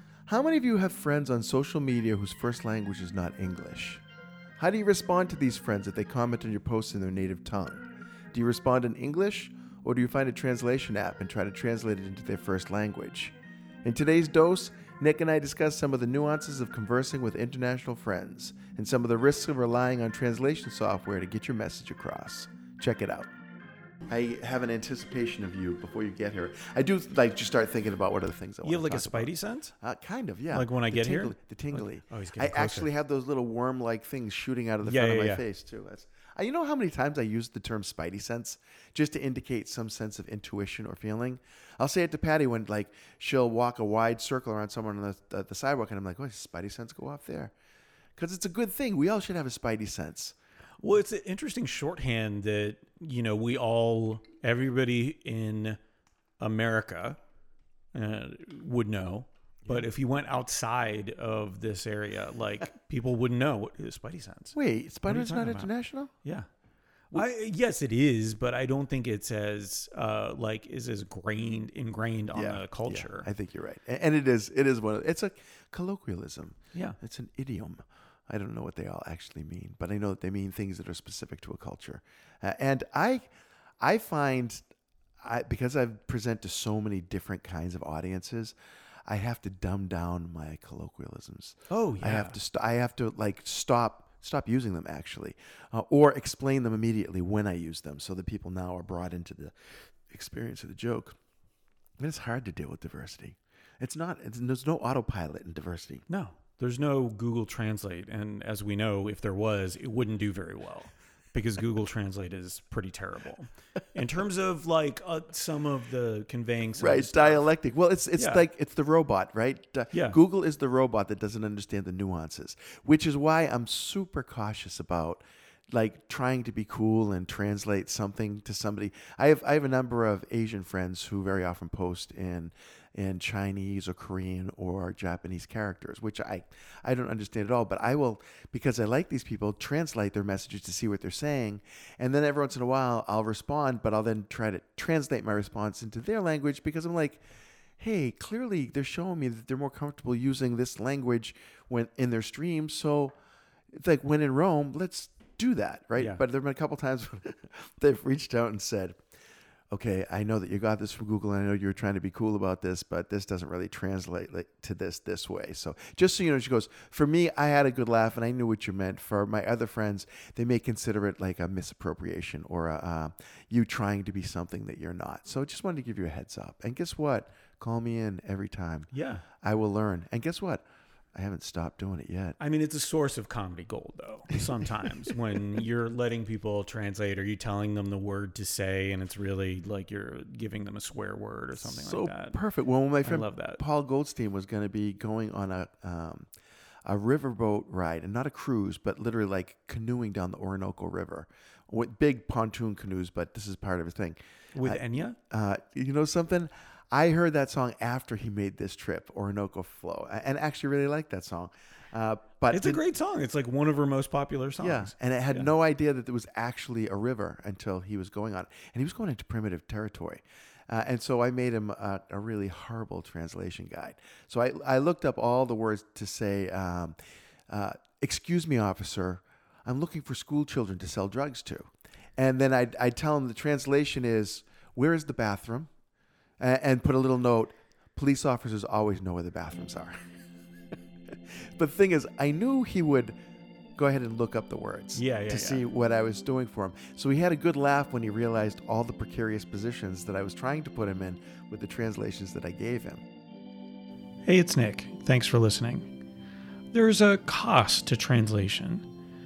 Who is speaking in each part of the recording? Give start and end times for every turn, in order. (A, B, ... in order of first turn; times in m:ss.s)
0:00.3-0:04.0 A
0:04.6-0:13.3 A
0:13.8-0:23.3 A
0:24.1-0:47.5 A
0:28.6-0:29.7 B
0:30.5-0:32.9 B
0:34.8-0:35.4 B
0:48.2-0:50.4 A
0:50.8-0:55.8 B
0:56.4-0:57.2 B
0:57.9-1:05.7 B
1:04.5-1:06.1 A
1:07.1-1:13.3 B
1:12.3-1:24.6 A
1:25.2-1:28.5 A
1:29.1-1:39.5 A
1:31.7-1:32.4 B
1:40.1-1:41.2 A
1:42.0-1:46.0 A
1:46.1-1:57.4 B
1:56.8-2:27.2 A
1:58.2-1:58.4 B
1:59.9-2:00.2 B
2:27.8-2:33.1 A
2:33.7-2:39.0 A
2:36.0-2:36.2 B
2:39.7-2:58.9 A
2:58.9-2:59.2 B
2:59.4-3:00.6 A
3:01.1-3:02.4 A
3:02.4-3:12.4 B
3:11.6-3:16.3 A
3:13.0-3:13.6 B
3:16.8-3:32.8 A
3:24.5-3:25.2 B
3:32.5-3:35.5 B
3:34.6-3:47.0 A
3:47.5-3:55.7 A
3:56.4-4:00.0 A
4:01.5-4:03.1 A
4:03.8-4:13.0 A
4:04.9-4:05.6 B
4:14.2-4:15.9 B
4:16.7-4:18.8 B